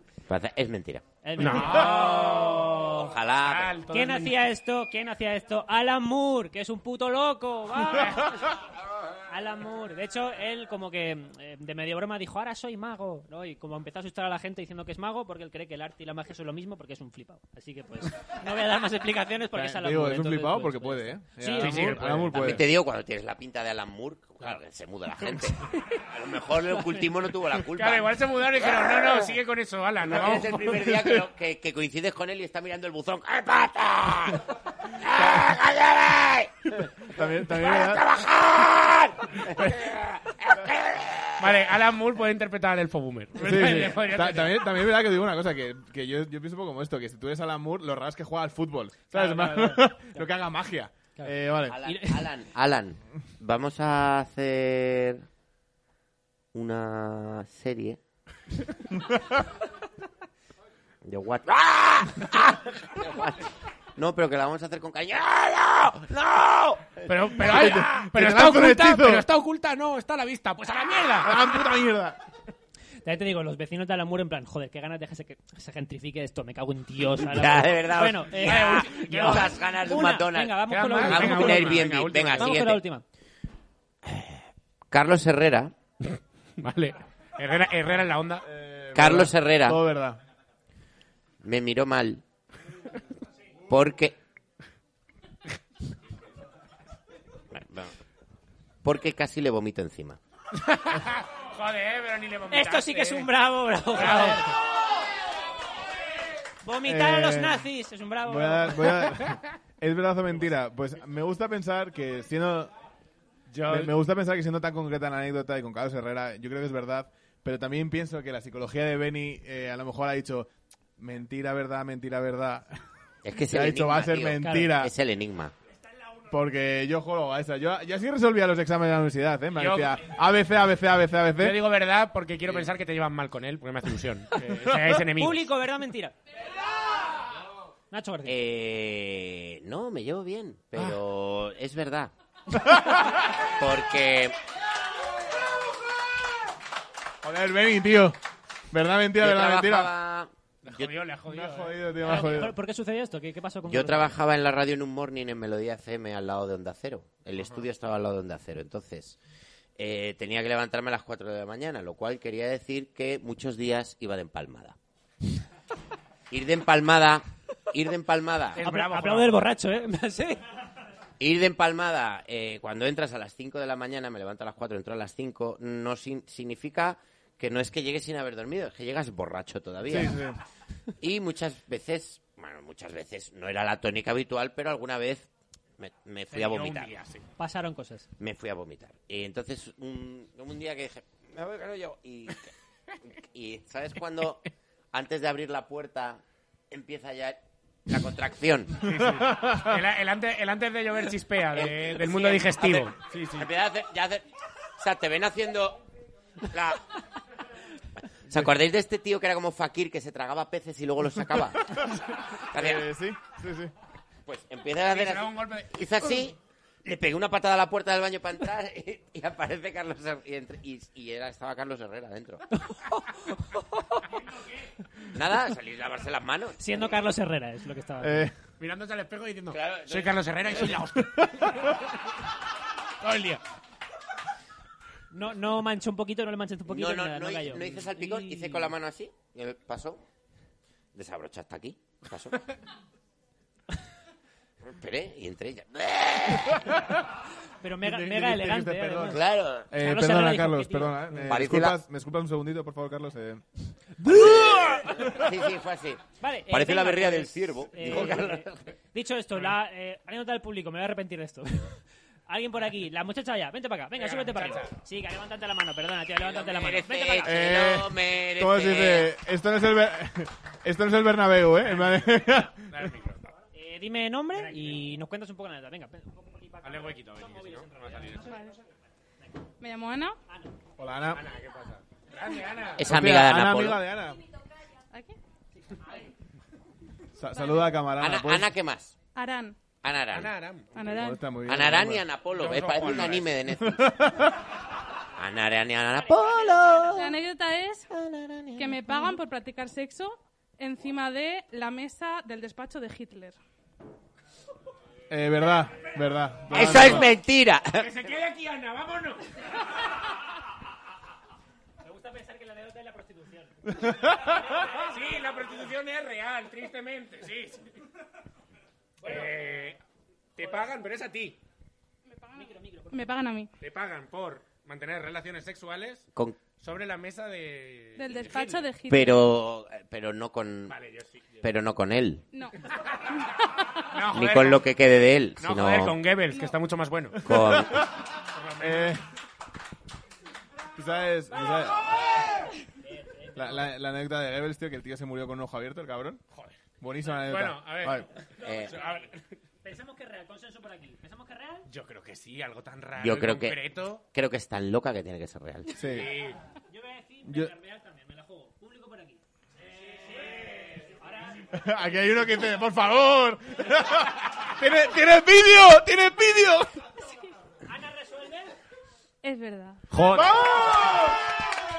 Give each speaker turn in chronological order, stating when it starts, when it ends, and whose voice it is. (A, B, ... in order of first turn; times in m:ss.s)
0:00.3-0:01.1 A
0:01.2-0:03.2 B
0:01.4-0:02.4 C
0:01.8-0:03.8 A
0:03.4-0:04.4 C
0:03.9-0:08.4 B
0:07.9-0:08.3 C
0:09.3-0:22.7 B
0:19.5-0:22.7 D
0:21.6-0:22.4 C
0:22.3-0:28.2 A
0:26.8-0:27.0 B
0:27.8-0:30.9 C
0:28.8-0:29.2 A
0:30.0-0:34.4 A
0:35.0-0:41.5 A
0:36.7-0:38.0 D
0:39.4-0:39.8 D
0:41.4-0:44.6 C
0:43.4-0:51.8 D
0:49.1-0:50.3 B
0:51.2-0:52.3 B
0:51.7-0:55.2 A
0:56.5-0:58.0 A
1:01.0-1:07.1 A
1:07.1-1:11.5 C
1:07.4-1:09.2 D
1:11.2-1:12.2 D
1:13.0-1:21.8 B
1:17.1-1:22.9 A
1:18.3-1:19.6 C
1:20.7-1:22.6 C
1:22.4-1:23.0 B
1:24.0-1:25.7 A
1:26.0-1:28.4 C
1:28.4-1:30.2 D
1:28.9-1:29.8 A
1:31.4-1:32.2 A
1:33.7-1:34.2 A
1:37.5-1:37.9 A
1:38.8-1:40.2 A
1:40.6-1:43.3 C
1:42.5-1:44.5 B
1:43.9-1:44.5 C
1:46.6-1:49.2 B
1:46.8-1:47.7 D
1:48.2-1:52.7 D
1:53.5-1:53.9 C
1:53.7-2:02.8 D
2:03.2-2:05.5 A
2:03.4-2:04.9 D
2:04.4-2:04.8 B
2:06.3-2:11.6 D
2:09.6-2:10.0 C
2:11.4-2:15.5 C
2:15.1-2:16.2 B
2:17.9-2:18.4 B
2:18.3-2:22.1 A
2:22.5-2:23.2 D
2:23.6-2:24.4 A
2:27.2-2:28.2 D
2:28.7-2:30.0 D
2:29.2-2:31.0 A
2:30.6-2:31.9 C
2:31.3-2:32.6 D
2:32.0-2:34.2 B
2:33.7-2:39.2 A
2:37.4-2:37.6 C
2:39.8-2:44.8 A
2:46.3-2:48.6 A
2:48.6-2:50.4 B
2:48.6-2:49.4 C
2:51.2-3:00.2 A
2:59.9-3:00.4 D
3:01.0-3:05.3 A
3:05.8-3:07.0 A
3:06.3-3:07.2 C
3:07.4-3:08.1 B
3:08.2-3:12.5 A
3:13.1-3:14.4 A
3:14.9-3:18.8 A
3:18.8-3:23.5 C
3:19.0-3:19.7 D
3:21.5-3:25.8 A
3:26.5-3:26.8 A
3:28.3-3:31.8 A
3:31.7-3:32.0 D
3:32.5-3:32.9 A
3:32.5-3:33.7 D
3:34.3-3:42.4 A
3:34.8-3:35.7 C
3:42.7-3:43.0 B
3:43.6-3:44.0 B
3:45.1-3:46.6 A
3:46.6-3:48.3 B
3:48.0-3:48.3 D
3:48.6-3:51.8 C
3:49.5-3:50.8 A
3:53.0-3:53.4 C
3:55.1-3:58.7 B
3:56.7-4:00.0 A
4:00.9-4:02.4 A
4:04.6-4:06.8 A
4:06.6-4:07.0 D
4:07.6-4:11.4 B
4:07.8-4:09.2 D
4:09.0-4:09.7 A
4:09.7-4:13.4 D
4:11.3-4:11.8 A
4:14.0-4:14.8 B
4:14.1-4:18.8 A
4:14.2-4:15.3 D
4:16.2-4:27.5 B
4:24.0-4:24.8 C
4:26.2-4:29.1 A
4:27.2-4:32.7 D
4:31.7-4:33.3 C
4:33.5-4:38.5 B
4:34.4-4:34.8 C
4:36.6-4:38.4 C
4:38.3-4:38.6 E
4:39.6-4:40.2 E
4:40.8-4:41.2 D
4:41.1-4:42.9 C
4:42.8-4:43.9 A
4:42.8-4:44.2 D
4:44.9-4:45.2 E
4:47.2-4:48.5 D
4:47.3-4:47.8 E
4:48.0-4:48.9 A
4:49.2-4:49.6 E
4:49.8-4:50.3 A
4:50.1-4:50.8 C
4:50.7-4:51.3 E
4:50.8-4:52.0 D
4:51.4-4:54.0 A
4:52.3-4:53.3 C
4:53.6-4:54.4 D
4:55.2-4:57.2 A
4:56.0-4:56.9 B
4:57.0-4:57.9 E
4:57.9-4:59.2 A
4:58.6-5:03.4 E
5:05.1-5:07.1 D
5:06.5-5:07.9 A
5:06.6-5:07.0 C
5:07.7-5:09.3 C
5:11.8-5:13.8 B
5:13.7-5:14.6 D
5:14.8-5:17.7 C
5:19.0-5:19.8 C
5:20.4-5:21.4 C
5:22.0-5:23.5 E
5:22.4-5:23.1 B
5:23.6-5:26.1 C
5:26.6-5:28.6 C
5:28.0-5:29.3 E
5:28.9-5:30.8 A
5:30.7-5:31.5 C
5:31.4-5:32.2 A
5:32.3-5:32.6 E
5:33.9-5:34.7 C
5:34.1-5:36.0 A
5:35.4-5:37.2 C
5:37.2-5:37.8 A
5:37.2-5:37.9 D
5:38.3-5:39.0 C
5:38.6-5:39.0 D
5:40.8-5:41.8 D
5:42.8-5:43.7 B
5:43.4-5:46.2 D
5:46.8-5:48.1 D
5:47.1-5:49.2 C
5:48.4-5:49.1 B
5:48.4-5:48.8 A
5:49.6-5:51.6 B
5:51.7-5:54.0 C
5:53.0-5:55.8 A
5:55.8-5:56.1 D
5:55.8-5:56.4 C
5:56.7-5:59.2 B
5:57.3-5:57.5 D
6:00.2-6:01.4 B
6:01.5-6:06.7 D
6:07.6-6:08.5 B
6:09.2-6:09.8 E
6:09.9-6:10.4 C
6:10.1-6:11.2 D